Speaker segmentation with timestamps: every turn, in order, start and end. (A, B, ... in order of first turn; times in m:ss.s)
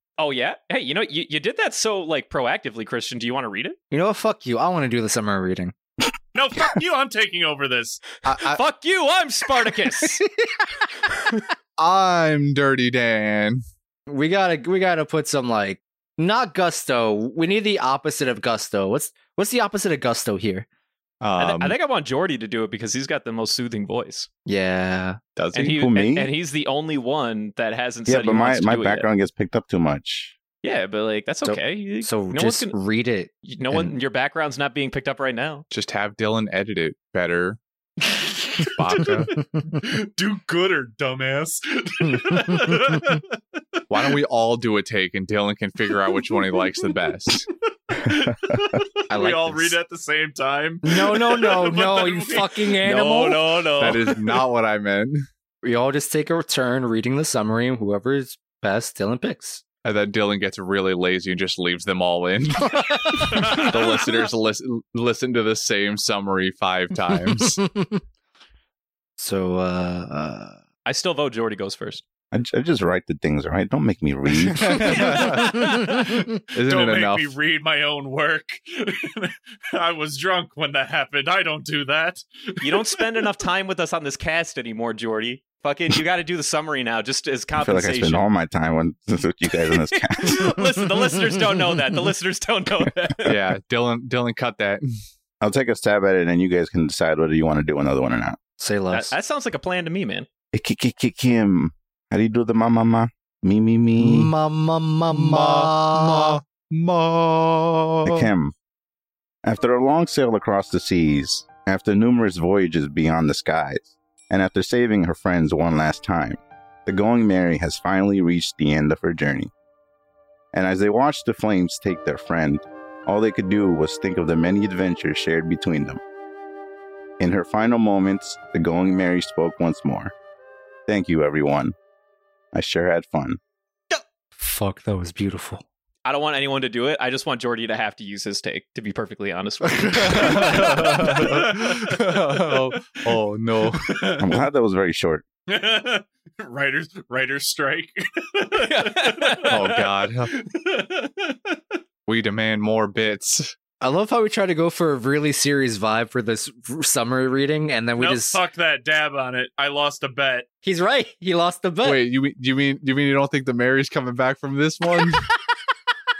0:00.2-0:03.8 A
0:03.9-0:05.7 B
0:06.3-0:08.0 C
0:08.2-0:08.6 D
0:08.4-0:10.2 A
0:10.2-0:10.6 B
0:11.8-0:13.6 D
0:14.1-0:20.6 B
0:21.2-0:21.8 D
0:21.4-0:24.3 A
0:24.4-0:25.2 B
0:25.4-0:25.7 D
0:25.5-0:29.1 A
0:25.6-0:26.3 E
0:28.1-0:30.4 E
0:30.6-0:32.8 A
0:31.4-0:33.9 B
0:33.4-0:35.6 A
0:35.7-0:37.6 D
0:38.6-0:39.4 D
0:39.8-0:43.2 C
0:42.0-0:42.8 B
0:43.9-0:47.5 D
0:47.9-0:52.7 C
0:49.1-0:49.8 D
0:50.8-0:53.6 B
0:52.8-0:54.1 A
0:53.7-0:55.2 D
0:55.6-0:59.6 B
0:59.8-1:07.6 D
1:07.6-1:08.0 B
1:09.2-1:10.6 B
1:10.8-1:12.0 A
1:12.3-1:15.2 E
1:14.5-1:16.0 D
1:15.4-1:23.0 C
1:16.5-1:17.3 D
1:22.6-1:28.2 A
1:27.6-1:30.6 E
1:29.5-1:33.4 A
1:33.2-1:34.8 D
1:35.4-1:38.4 E
1:38.6-1:39.1 B
1:38.9-1:40.3 A
1:40.5-1:44.3 E
1:44.0-1:46.4 B
1:45.1-1:48.3 D
1:48.0-1:48.5 E
1:49.4-1:59.5 E
2:00.5-2:06.0 E
2:07.2-2:10.1 E
2:10.9-2:11.7 E
2:12.5-2:13.4 E
2:14.4-2:15.6 B
2:16.0-2:21.4 A
2:19.8-2:24.2 D
2:23.8-2:24.4 C
2:24.2-2:25.2 E
2:25.5-2:31.6 C
2:28.6-2:29.7 A
2:29.5-2:30.3 D
2:32.1-2:33.5 D
2:33.8-2:38.4 B
2:38.0-2:40.4 C
2:40.6-2:42.0 B
2:41.8-2:45.2 D